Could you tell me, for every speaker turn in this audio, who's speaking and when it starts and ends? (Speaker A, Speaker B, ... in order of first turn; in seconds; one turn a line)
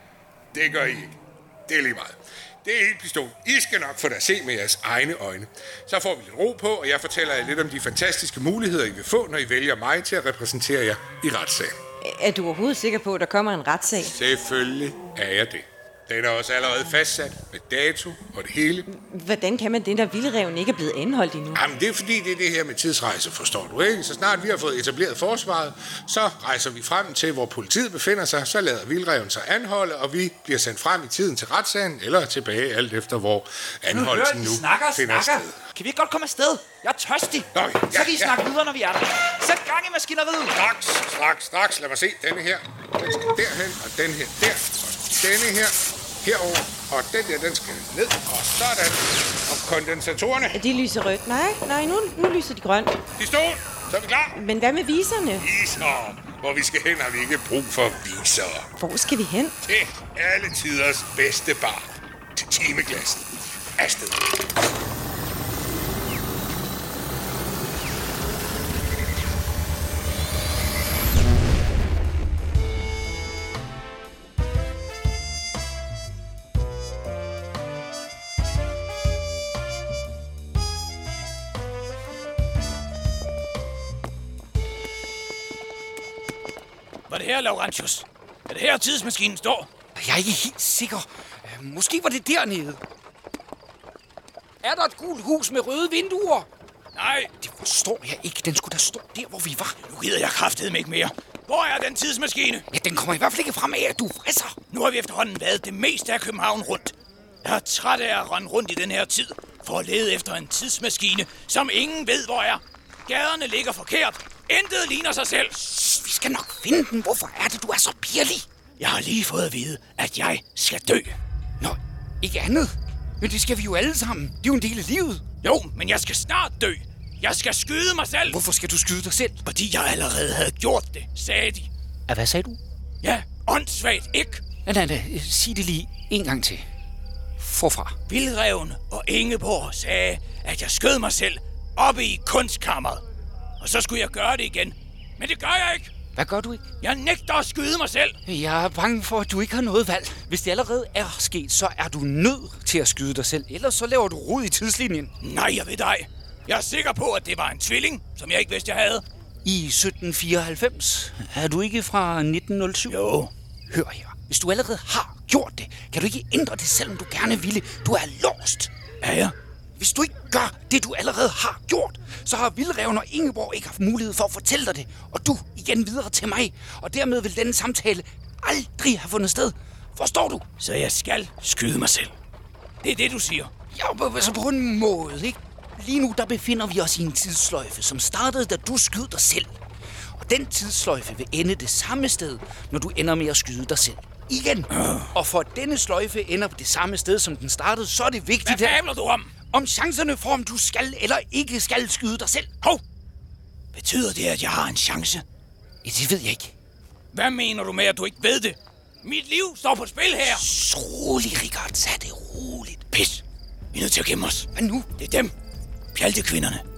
Speaker A: 0.5-11.8
Speaker B: 12.0-14.2
Speaker A: 14.0-18.9
Speaker B: 18.9-21.6
Speaker A: 21.5-35.6
Speaker C: 33.9-40.6
Speaker A: 37.5-38.4
Speaker A: 40.5-50.6
Speaker B: 50.5-53.0
Speaker A: 53.2-54.3
Speaker B: 54.3-55.5
Speaker A: 55.4-58.7
Speaker B: 58.8-59.6
Speaker A: 59.6-64.3
Speaker D: 87.1-89.7
Speaker E: 90.0-92.8
Speaker E: 94.6-96.5
Speaker D: 96.9-97.3
Speaker E: 97.4-99.8
Speaker D: 99.8-102.7
Speaker E: 102.7-104.5
Speaker D: 104.7-115.6
Speaker E: 115.6-118.5
Speaker D: 118.8-121.2
Speaker E: 121.6-125.2
Speaker D: 125.4-128.4
Speaker E: 128.2-129.4
Speaker D: 129.4-131.7
Speaker E: 132.1-132.6
Speaker D: 133.0-134.4
Speaker E: 134.6-136.6
Speaker E: 137.4-137.9
Speaker D: 138.1-143.0
Speaker D: 143.6-145.9
Speaker E: 146.2-146.6
Speaker D: 146.8-148.2
Speaker E: 148.2-155.1
Speaker D: 155.2-159.0
Speaker E: 159.4-163.0
Speaker D: 162.9-163.3
Speaker E: 163.7-168.7
Speaker D: 169.0-169.3
Speaker E: 169.8-180.4
Speaker D: 180.6-182.1
Speaker D: 182.8-183.5
Speaker E: 183.7-189.5
Speaker E: 190.2-198.8
Speaker D: 194.7-195.1
Speaker D: 198.4-199.3
Speaker E: 199.5-202.5
Speaker D: 203.7-205.2
Speaker E: 205.8-206.5
Speaker D: 207.1-210.4
Speaker E: 210.2-213.0
Speaker D: 212.9-213.2
Speaker D: 213.7-215.3
Speaker E: 214.5-214.9
Speaker D: 215.9-216.6